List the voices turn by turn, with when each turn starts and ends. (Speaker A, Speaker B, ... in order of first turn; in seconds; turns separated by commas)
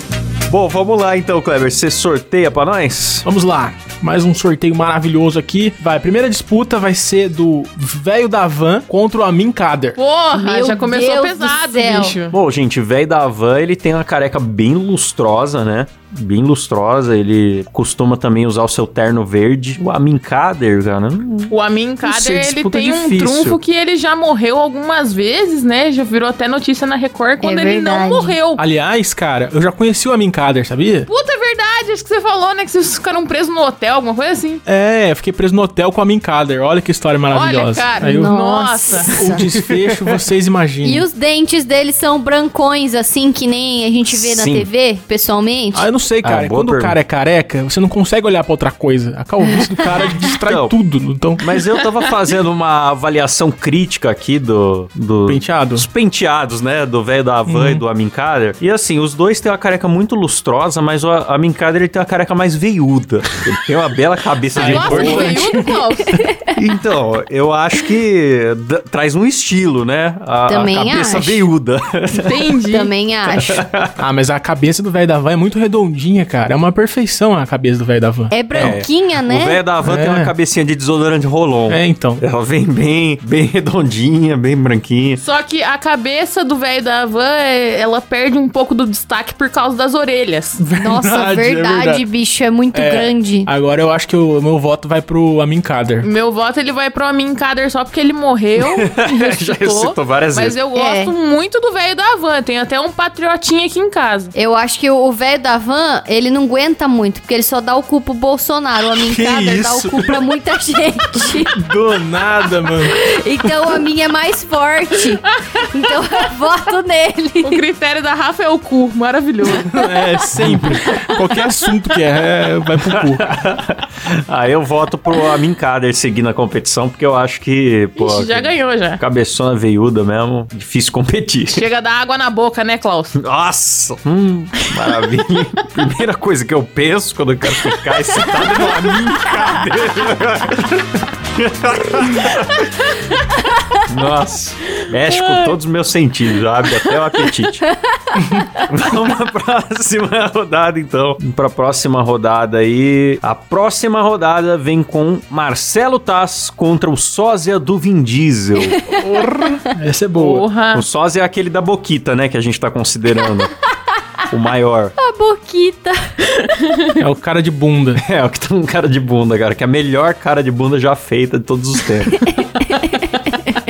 Speaker A: 0.5-3.3, Speaker B: 3.2-10.0, Speaker C: 10.0-12.4, Speaker D: 10.3-12.2, Speaker A: 12.3-23.6, Speaker C: 21.5-28.6, Speaker D: 27.4-28.4, Speaker B: 28.6-31.1, Speaker C: 31.1-34.6, Speaker B: 34.7-38.3, Speaker C: 37.3-39.1, Speaker D: 38.0-39.5, Speaker B: 39.1-41.1, Speaker D: 40.8-45.9, Speaker A: 44.1-44.7, Speaker B: 45.7-51.4, Speaker A: 46.2-47.0, Speaker A: 50.0-50.8, Speaker A: 51.4-65.4, Speaker B: 55.3-55.9, Speaker B: 57.5-57.8, Speaker B: 64.5-65.6, Speaker C: 64.6-66.2, Speaker D: 65.5-66.5, Speaker A: 66.5-72.4, Speaker D: 70.5-71.5, Speaker C: 72.2-72.9, Speaker D: 72.7-73.6, Speaker A: 73.4-74.0, Speaker B: 74.0-78.8, Speaker D: 78.3-79.6, Speaker A: 78.5-85.2, Speaker B: 79.8-80.3, Speaker B: 81.7-82.2, Speaker C: 85.2-90.6, Speaker B: 90.6-92.0, Speaker D: 90.8-93.5, Speaker B: 92.7-96.1, Speaker C: 96.0-104.3, Speaker A: 98.6-100.6, Speaker D: 100.7-101.1, Speaker D: 104.3-111.5, Speaker B: 109.0-110.2, Speaker B: 111.2-113.0, Speaker D: 112.8-117.6, Speaker C: 117.4-119.9, Speaker B: 119.5-123.3, Speaker A: 120.3-120.8, Speaker A: 122.9-131.6, Speaker C: 128.0-129.0, Speaker C: 131.5-133.2, Speaker A: 133.2-142.7, Speaker A: 143.8-147.7, Speaker C: 145.1-145.6, Speaker A: 148.6-158.8, Speaker D: 158.6-159.0, Speaker B: 158.8-160.5, Speaker C: 160.2-160.8, Speaker A: 160.7-163.5, Speaker A: 164.3-164.9, Speaker D: 165.0-166.2, Speaker B: 167.0-168.0, Speaker A: 168.0-172.3, Speaker D: 172.1-173.6